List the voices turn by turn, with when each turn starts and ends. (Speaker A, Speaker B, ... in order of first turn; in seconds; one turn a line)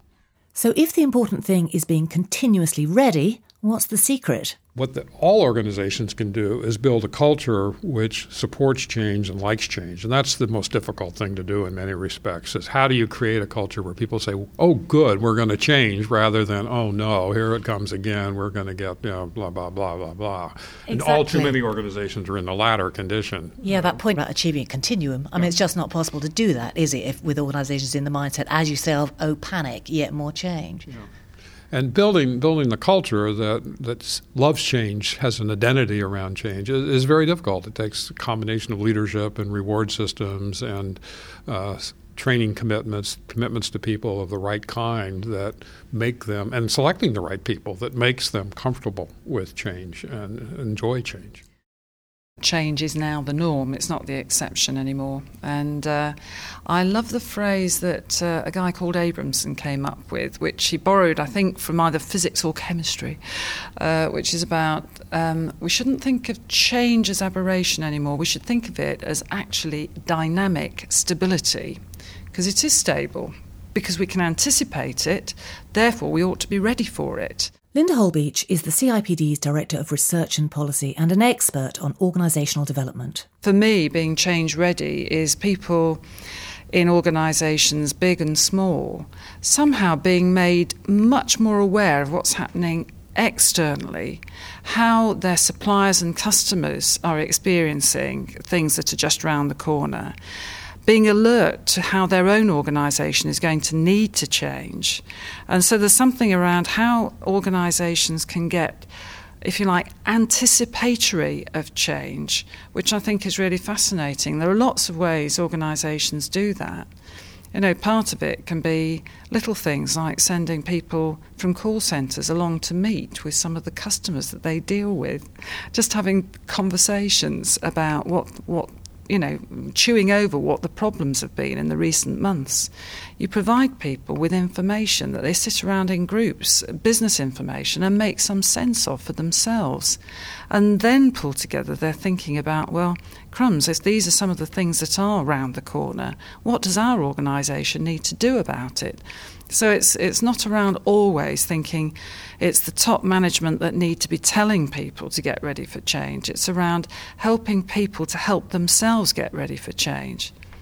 Speaker A: 0.6-4.6
Speaker B: 4.8-24.0
Speaker A: 20.9-21.6
Speaker A: 23.6-30.9
Speaker B: 31.7-51.4
Speaker C: 52.4-63.2
Speaker C: 63.8-77.5
Speaker A: 77.7-83.3
Speaker C: 83.4-86.0
Speaker C: 86.7-100.2
Speaker C: 100.8-108.9
Speaker C: 109.4-116.9
Speaker C: 117.5-160.3